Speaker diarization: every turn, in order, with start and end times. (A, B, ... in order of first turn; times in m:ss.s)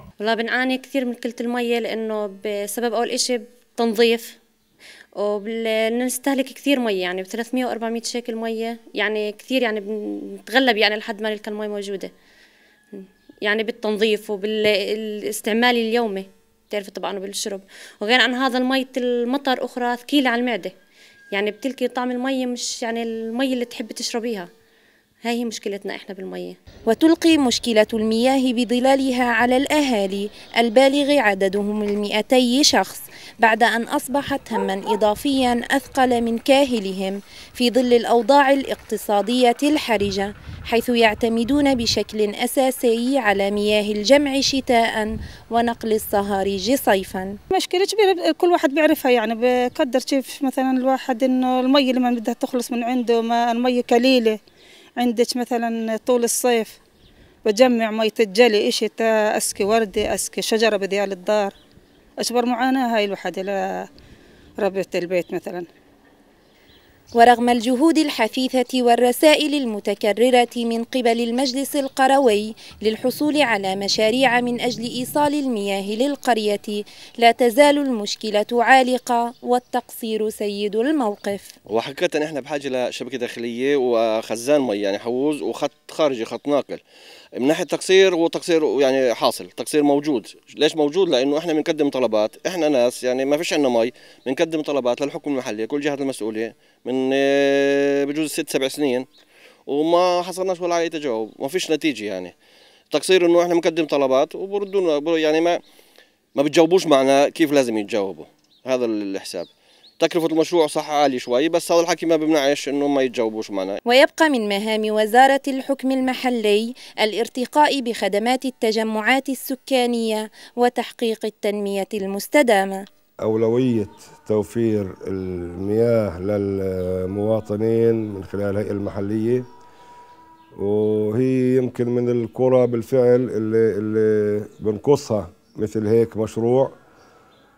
0:00.2-0:04.4 A
0:05.2-0:12.1 A
0:12.9-0:20.7 A
0:21.3-0:24.5 A
0:25.2-0:26.6 A
0:26.9-0:47.4 B
0:47.5-0:54.4 C
0:55.0-0:56.8 C
0:57.4-1:01.5 C
1:02.2-1:03.9 C
1:04.6-1:05.7 C
1:07.1-1:21.5 B
1:21.7-1:26.8 D
1:27.3-1:39.1 D
1:39.7-1:42.3 D
1:42.9-1:45.6 D
1:46.3-1:53.8 D
1:53.9-2:02.8 B
2:03.2-2:09.4 E
2:10.6-2:16.7 E